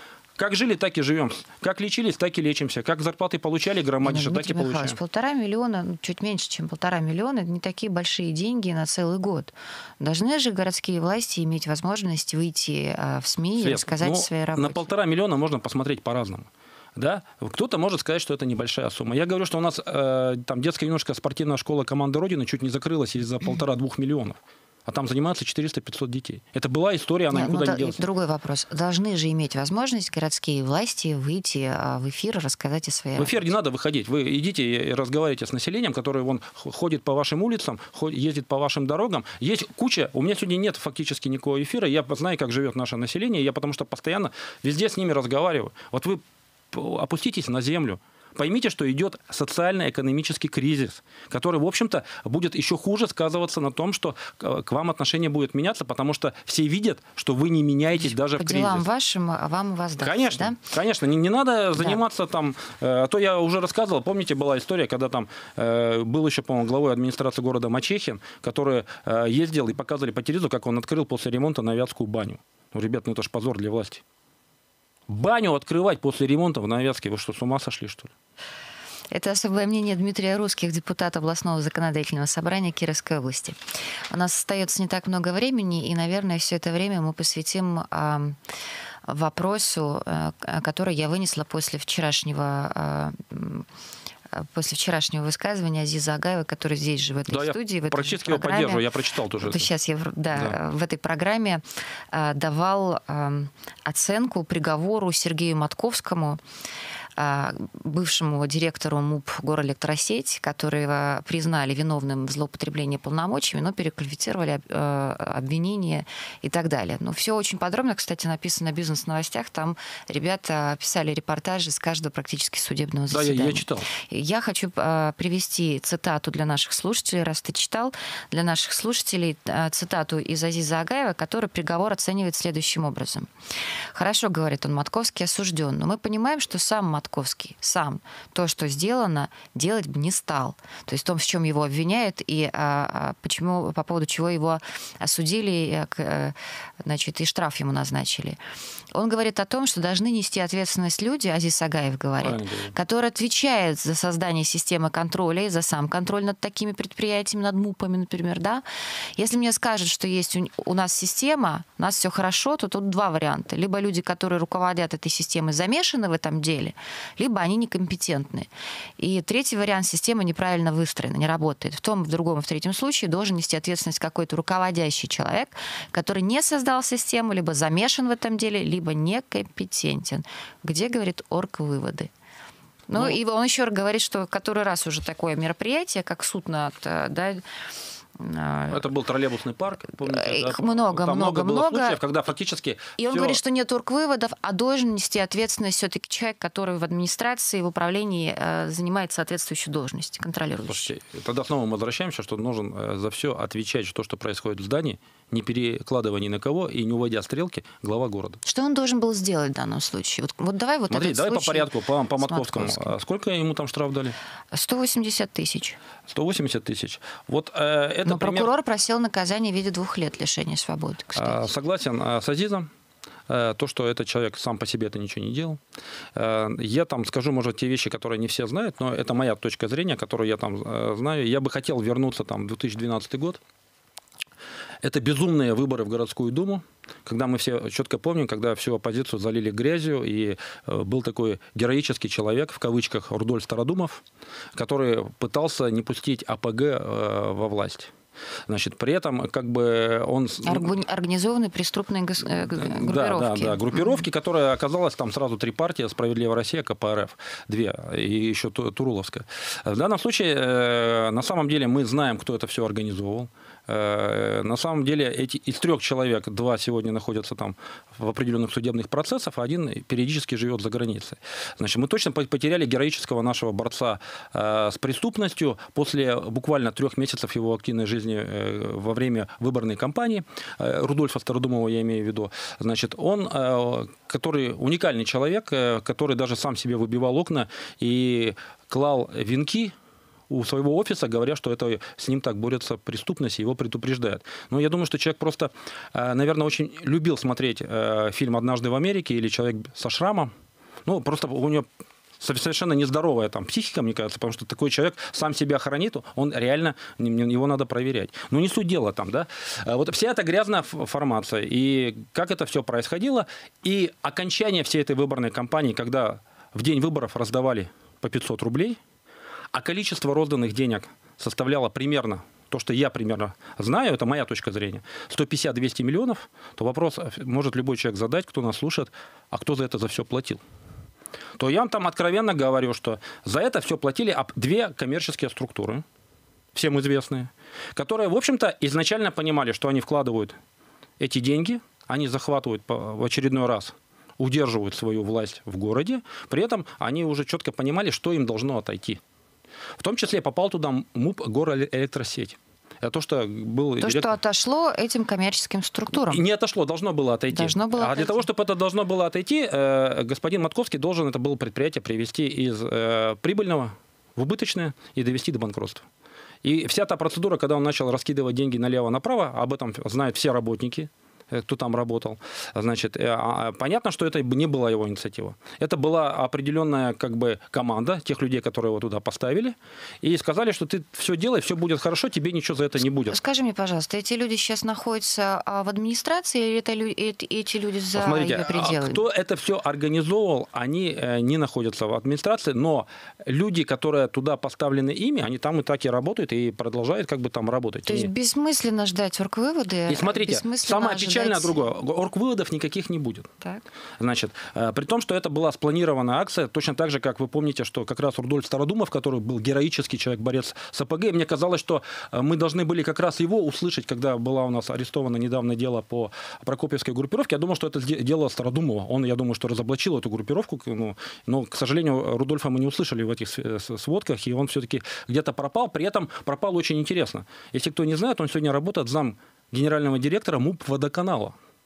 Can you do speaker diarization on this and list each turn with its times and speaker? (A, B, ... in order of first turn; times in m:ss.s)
0:00.4-0:05.0 A
0:04.0-0:14.9 B
0:13.6-0:28.0 A
0:27.3-0:33.5 B
0:33.2-0:58.8 A
0:58.1-1:00.6 B
1:00.0-1:14.0 A
1:15.1-1:18.1 A
1:19.1-1:23.6 B
1:24.1-1:28.4 B
1:29.1-1:33.6 B
1:34.3-1:38.8 B
1:37.3-1:39.7 A
1:39.4-1:46.4 B
1:47.2-2:13.3 B
2:03.1-2:03.9 A
2:13.9-2:28.4 B
2:28.9-2:38.6 B
2:32.2-2:32.7 A
2:39.2-2:48.5 B
2:49.0-3:02.1 B
3:02.9-3:07.4 B
3:02.9-3:03.2 A
3:08.2-3:08.8 B
3:08.7-3:13.4 A
3:10.0-3:12.0 B
3:13.0-3:20.9 B
3:20.7-3:28.4 A
3:28.4-3:32.9 B
3:30.9-3:34.2 A
3:34.5-3:35.8 B
3:36.1-3:38.5 A
3:38.0-3:41.4 B
3:41.1-3:42.7 A
3:43.3-3:45.6 A
3:46.1-3:53.4 A
3:54.8-4:04.0 A
4:04.5-4:07.9 A
4:08.5-4:10.8 A
4:10.4-4:14.0 B
4:12.5-4:49.7 A
4:50.3-5:00.3 A
5:00.8-5:01.6 A
5:02.2-5:18.8 A
5:19.5-5:30.4 A
5:31.4-5:35.8 A
5:36.5-5:40.4 A
5:41.0-5:49.0 A
5:49.8-5:54.1 A
5:53.8-5:56.2 B
5:56.0-6:05.8 A
5:57.3-5:58.2 B
6:06.4-6:23.2 A
6:23.0-6:29.0 B
6:27.9-6:38.1 A
6:37.8-6:41.6 B
6:39.9-6:43.3 A
6:44.0-7:11.4 A